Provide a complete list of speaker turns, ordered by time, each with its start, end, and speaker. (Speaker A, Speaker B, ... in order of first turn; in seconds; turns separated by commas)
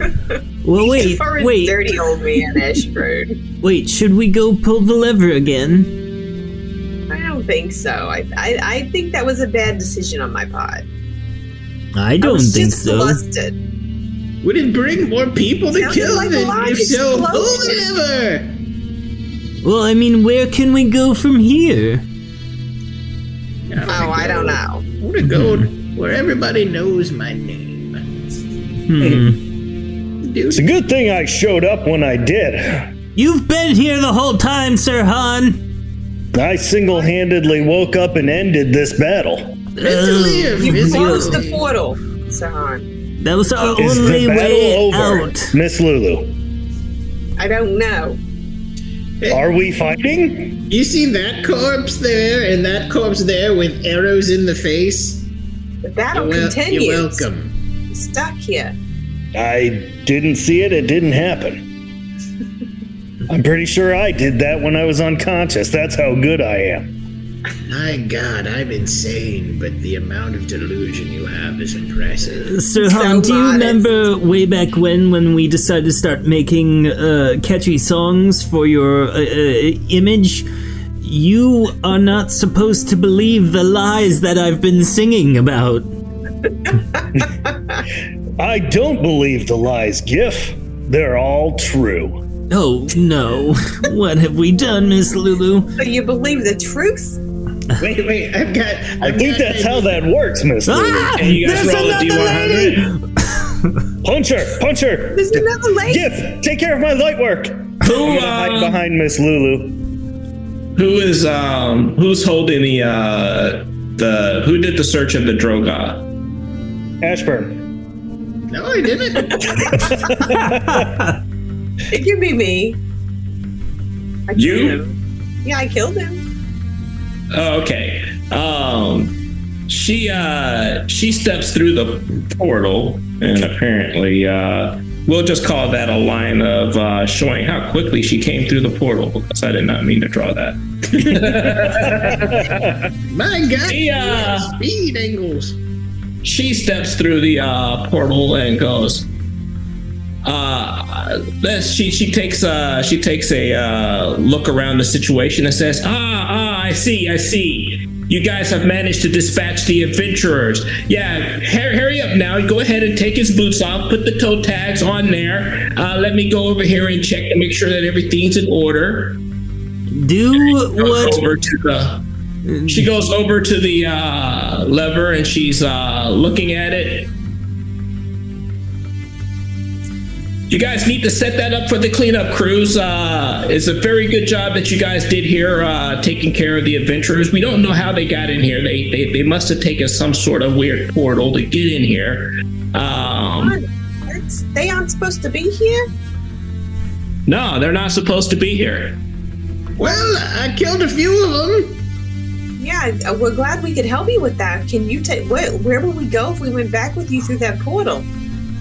Speaker A: 0.6-2.0, Speaker B: 0.8-3.4, Speaker A: 3.6-5.9, Speaker B: 7.1-10.8, Speaker A: 11.9-13.2, Speaker B: 12.2-13.6, Speaker C: 14.4-18.6, Speaker B: 15.8-17.8, Speaker A: 19.6-22.0, Speaker C: 23.7-28.2, Speaker B: 23.9-24.9, Speaker A: 28.9-29.4, Speaker C: 30.2-30.7, Speaker D: 30.5-32.9, Speaker A: 33.1-35.6, Speaker D: 36.3-39.6, Speaker A: 39.8-41.4, Speaker C: 39.8-41.6, Speaker B: 40.6-42.9, Speaker A: 43.2-45.5, Speaker D: 43.7-46.3, Speaker B: 47.4-48.2, Speaker C: 49.2-49.5, Speaker D: 49.3-50.5, Speaker C: 50.7-55.3, Speaker B: 55.8-57.3, Speaker C: 56.1-57.5, Speaker B: 57.9-58.8, Speaker D: 59.3-61.6, Speaker D: 63.3-66.9, Speaker C: 67.7-72.5, Speaker A: 72.4-80.5, Speaker B: 72.8-74.1, Speaker A: 81.0-85.8, Speaker D: 88.4-92.2, Speaker A: 92.5-95.7, Speaker B: 95.8-97.2, Speaker C: 97.8-100.1, Speaker D: 99.0-101.2, Speaker A: 100.7-103.0, Speaker E: 101.2-102.9, Speaker D: 104.0-109.8, Speaker B: 105.1-106.1, Speaker E: 107.8-108.8, Speaker E: 110.8-116.0, Speaker D: 117.0-117.6, Speaker C: 118.5-119.9, Speaker D: 119.7-120.9, Speaker B: 119.7-120.1, Speaker A: 120.6-121.0, Speaker B: 121.9-122.8, Speaker B: 124.3-126.2, Speaker E: 124.4-124.8, Speaker E: 127.3-129.2, Speaker E: 129.7-142.8, Speaker C: 143.1-145.6, Speaker E: 143.7-144.5, Speaker E: 146.2-149.1, Speaker E: 150.2-169.2, Speaker A: 169.9-171.2, Speaker E: 170.4-172.0, Speaker A: 172.5-172.9, Speaker E: 172.7-177.1, Speaker E: 180.5-193.6, Speaker B: 193.4-195.9, Speaker E: 197.3-199.0, Speaker C: 199.8-201.8, Speaker B: 202.6-208.1